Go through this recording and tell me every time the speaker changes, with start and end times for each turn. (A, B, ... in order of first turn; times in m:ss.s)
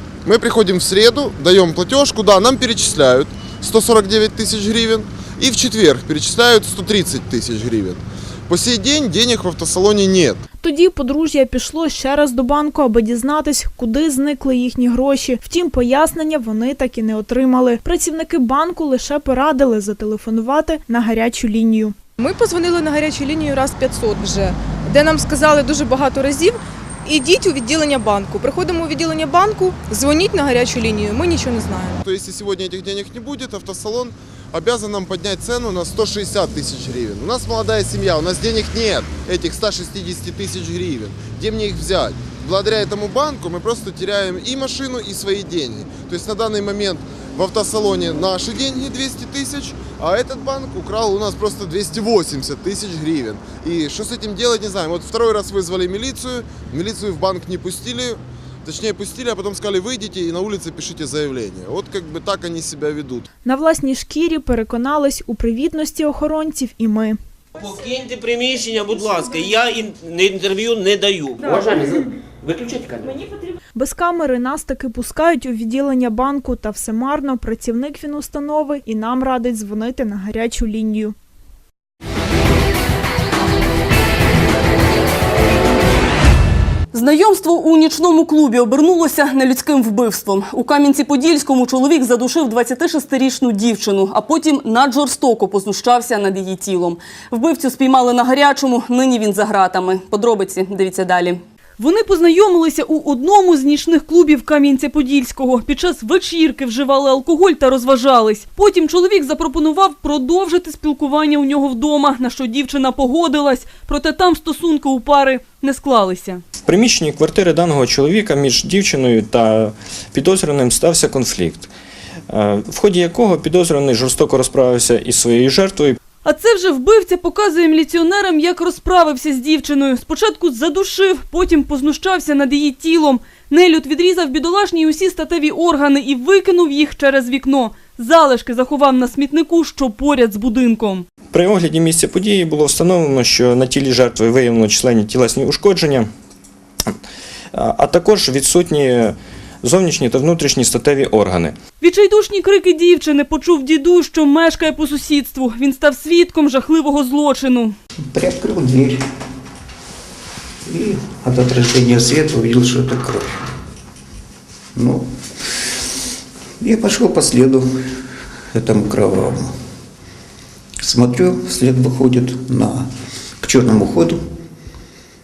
0:00.2-0:10.4 A
0:10.6-0:22.0 B
0:22.2-0:32.0 C
0:32.0-1:03.3 A
1:03.4-1:07.2 B
1:07.6-1:13.2 D
1:13.8-1:21.2 B
1:26.9-1:56.4 E
1:56.7-2:01.7 F
2:02.3-2:06.0 F
2:06.2-2:21.1 E
2:21.3-2:26.1 F
2:27.5-2:31.6 F
2:31.8-2:37.8 E
2:38.1-2:39.0 G
2:40.7-2:43.3 G
2:44.8-2:45.1 G
2:46.6-2:49.5 G
2:50.8-2:52.9 G
2:53.4-2:54.2 G